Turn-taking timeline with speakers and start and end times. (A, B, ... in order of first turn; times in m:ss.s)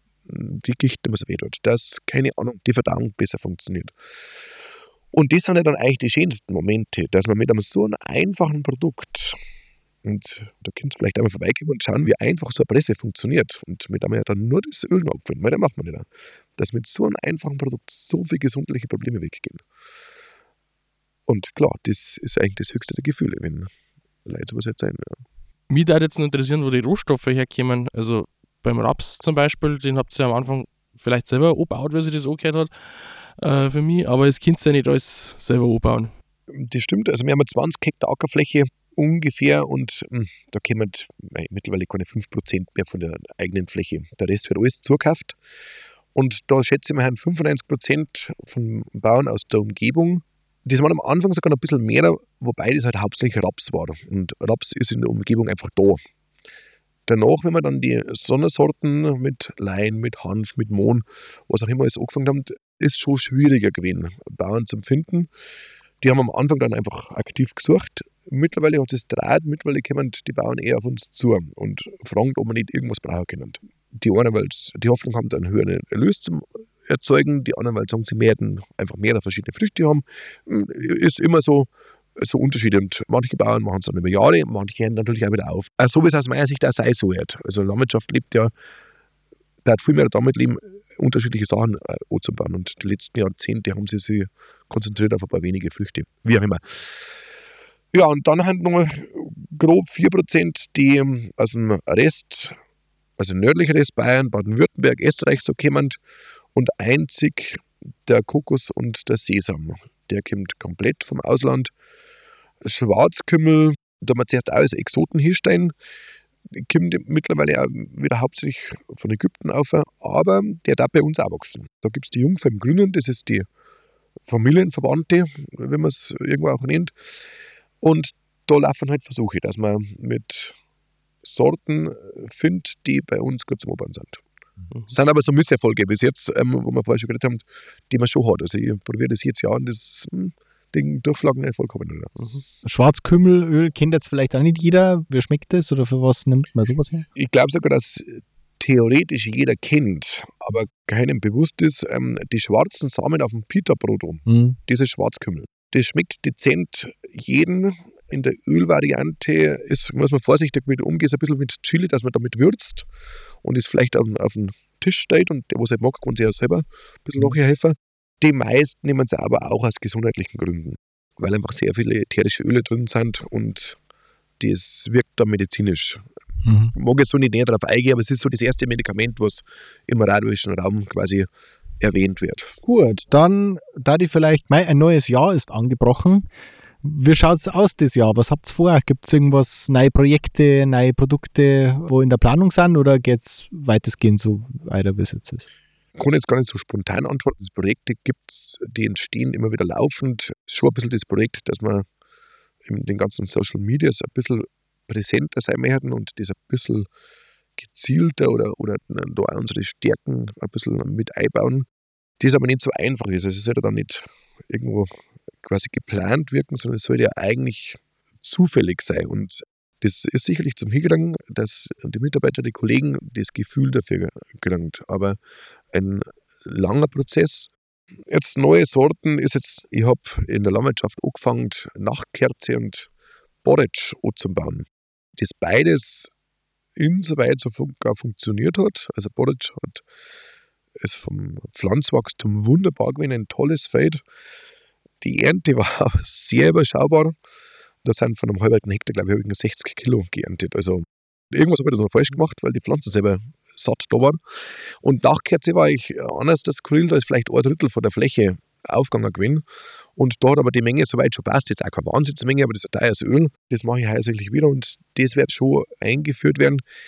0:00.2-0:03.9 A
0:05.1-0:09.4 A
0:10.0-0:19.6 A
0:21.3-0:23.7 A
0:24.2-0:25.2 A
0:25.7-0:36.1 B
0:36.5-0:45.4 A
0:46.1-0:56.0 A
0:57.0-1:05.3 A
1:06.0-1:28.5 A
1:29.6-1:37.1 A
1:37.9-1:42.6 A
1:43.2-1:46.0 A
1:46.5-1:51.7 A
1:52.6-1:55.7 A
1:56.5-2:03.5 A
2:04.2-2:06.9 A
2:07.8-2:10.6 A
2:11.2-2:14.2 A
2:14.9-2:22.1 A
2:22.2-2:22.4 B
2:22.6-2:27.1 C
2:27.1-2:42.9 A
2:34.2-2:34.6 C
2:43.4-2:53.8 A
2:54.4-2:56.0 A
2:56.4-2:56.7 C
2:56.7-3:01.3 A
3:01.8-3:02.5 A
3:02.6-3:06.3 C
3:06.8-3:15.5 C
3:16.0-3:21.9 A
3:22.6-3:26.9 A
3:27.6-3:31.6 A
3:32.2-3:45.2 A
3:45.7-3:47.5 A
3:48.1-3:52.9 A
3:53.4-3:56.1 A
3:56.8-3:59.8 A
4:00.8-4:04.0 A
4:05.0-4:07.1 A
4:07.8-4:19.4 A
4:20.0-4:26.6 A